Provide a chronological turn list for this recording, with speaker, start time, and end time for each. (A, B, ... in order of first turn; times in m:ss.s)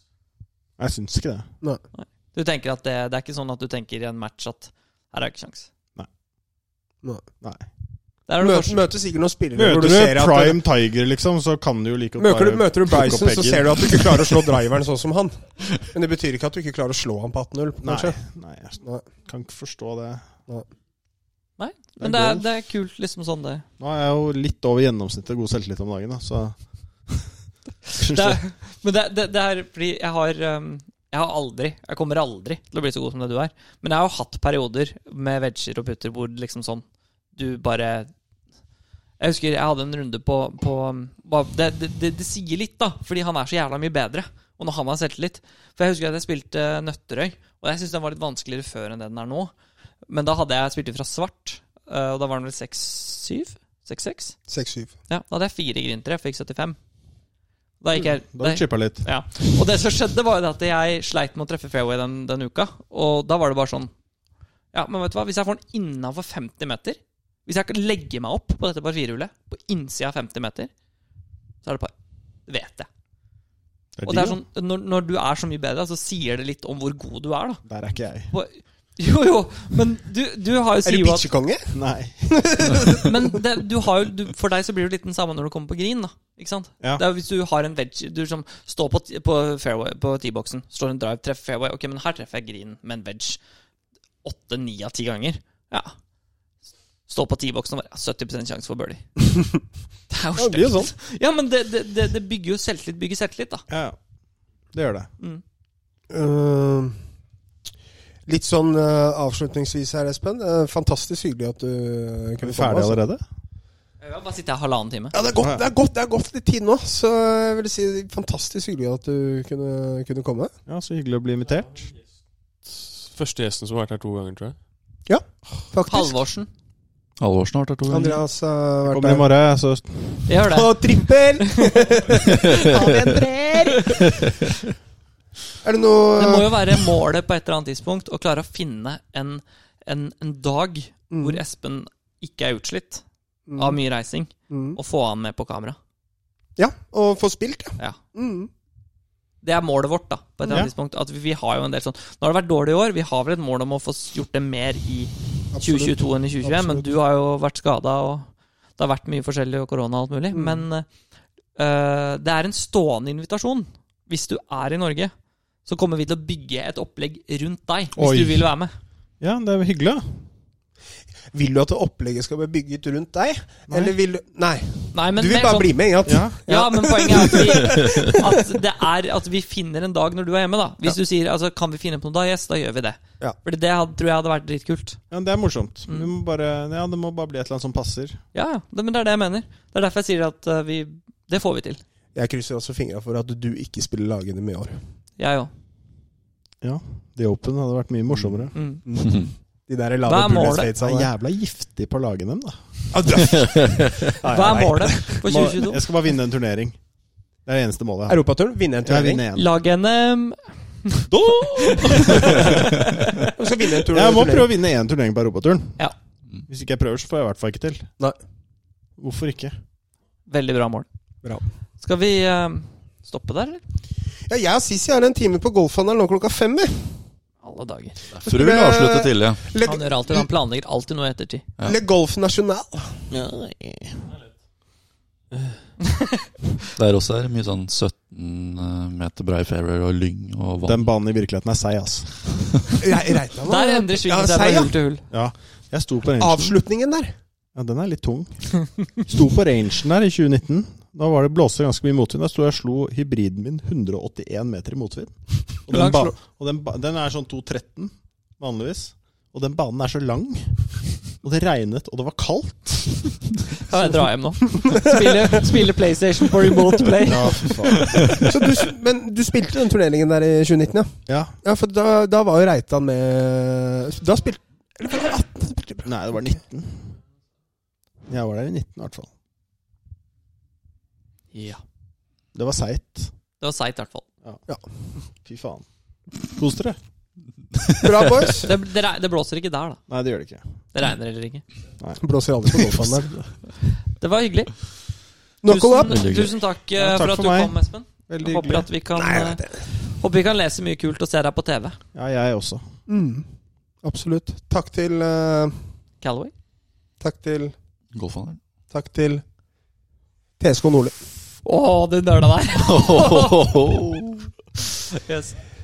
0:00.8-0:01.5 A
0:01.9-0:05.7 B
0:08.3-0:08.8 B
0:08.4-0:10.6 C
0:09.5-0:14.4 A
0:12.2-0:18.2 C
0:17.8-0:20.3 A
0:21.6-0:23.6 B
0:22.0-0:22.5 A
0:23.8-0:27.3 A
0:27.9-0:38.1 B
0:28.0-0:28.4 A
0:39.2-0:49.5 B
0:50.1-0:54.4 B
0:54.5-0:54.9 C
0:55.1-0:56.8 B
0:57.8-1:03.9 B
0:57.9-0:59.0 A
1:04.7-1:10.7 B
1:11.6-1:11.9 B
1:12.5-1:12.9 B
1:14.0-1:14.4 A
1:14.0-1:17.6 B
1:17.6-1:18.3 A
1:18.3-1:21.3 B
1:20.8-1:21.8 C
1:21.7-1:23.0 A
1:22.3-1:23.1 C
1:23.0-1:33.4 B
1:34.2-1:35.9 B
1:37.1-1:39.0 B
1:40.1-1:43.6 B
1:40.4-1:40.9 A
1:43.7-1:44.0 A
1:44.7-1:45.1 A
1:46.1-1:47.0 C
1:48.3-1:53.0 C
1:52.4-1:53.2 A
1:54.0-1:55.1 B
1:55.1-2:00.5 C
1:55.4-1:55.6 A
2:00.7-2:01.9 A
2:02.6-2:04.6 D
2:05.0-2:06.1 C
2:05.9-2:06.5 B
2:07.2-2:08.2 E
2:07.9-2:09.2 C
2:08.9-2:10.4 A
2:10.3-2:11.7 B
2:10.4-2:14.3 C
2:15.6-2:16.8 C
2:16.2-2:23.0 B
2:21.1-2:21.4 C
2:23.5-2:23.8 C
2:23.6-2:25.8 B
2:24.5-2:24.8 C
2:26.6-2:28.5 C
2:29.4-2:40.9 B
2:35.5-2:36.9 C
2:40.3-2:40.6 C
2:41.6-2:45.1 B
2:45.6-2:48.7 B
2:48.0-2:48.4 A
2:49.2-2:50.2 A
2:51.3-2:58.2 C
2:53.7-2:53.9 A
2:54.9-3:05.0 B
2:56.0-2:56.4 A
3:05.1-3:08.2 A
3:08.3-3:11.8 B
3:12.1-3:14.8 C
3:15.2-3:15.5 B
3:16.6-3:18.5 A
3:18.5-3:18.8 B
3:18.8-3:21.1 C
3:19.0-3:19.3 E
3:20.0-3:20.7 B
3:20.4-3:23.0 A
3:22.9-3:25.2 C
3:24.2-3:26.8 A
3:24.3-3:25.8 B
3:27.4-3:28.2 A
3:28.1-3:29.2 C
3:28.8-3:29.5 A
3:29.3-3:32.5 B
3:31.1-3:32.6 A
3:31.7-3:32.1 D
3:33.4-3:34.5 C
3:33.9-3:35.8 A
3:36.5-3:37.9 A
3:39.0-3:39.6 A
3:40.3-3:40.9 B
3:41.8-3:43.6 B
3:44.3-3:47.0 C
3:47.4-3:48.0 B
3:48.2-3:49.4 E
3:48.2-3:50.3 C
3:49.6-3:51.5 B
3:51.6-3:53.1 C
3:53.2-3:53.9 A
3:54.0-3:54.3 D
3:55.8-3:56.2 B
3:56.8-4:00.9 E
4:00.6-4:02.5 A
4:02.8-4:04.7 C
4:03.5-4:05.1 B
4:05.1-4:06.6 A
4:06.2-4:07.1 C
4:07.5-4:23.2 A
4:15.7-4:16.1 B
4:23.7-4:28.0 B
4:23.8-4:25.1 C
4:27.0-4:28.2 A
4:28.1-4:35.9 C
4:31.1-4:31.3 A
4:35.8-4:37.0 A
4:38.1-4:39.1 A
4:41.3-4:41.6 B
4:42.3-4:43.1 A
4:43.4-4:44.0 B
4:45.0-4:45.6 A
4:46.2-4:46.8 A
4:47.8-4:48.5 C
4:48.4-4:49.8 B
4:49.9-4:50.4 A
4:50.7-4:51.4 B
4:51.8-4:52.9 A
4:52.0-4:53.4 C
4:53.9-4:54.6 B
4:55.4-4:56.0 C
4:55.4-5:01.8 B
4:55.9-4:56.3 E
4:56.8-4:58.7 A
4:58.9-4:59.6 C
5:01.9-5:02.6 A
5:02.9-5:03.2 C
5:03.8-5:05.6 C
5:06.0-5:06.3 B
5:07.0-5:07.5 C
5:07.9-5:08.4 E
5:08.7-5:09.2 C
5:10.4-5:10.9 C
5:11.4-5:13.6 B
5:12.6-5:14.2 E
5:14.9-5:15.4 B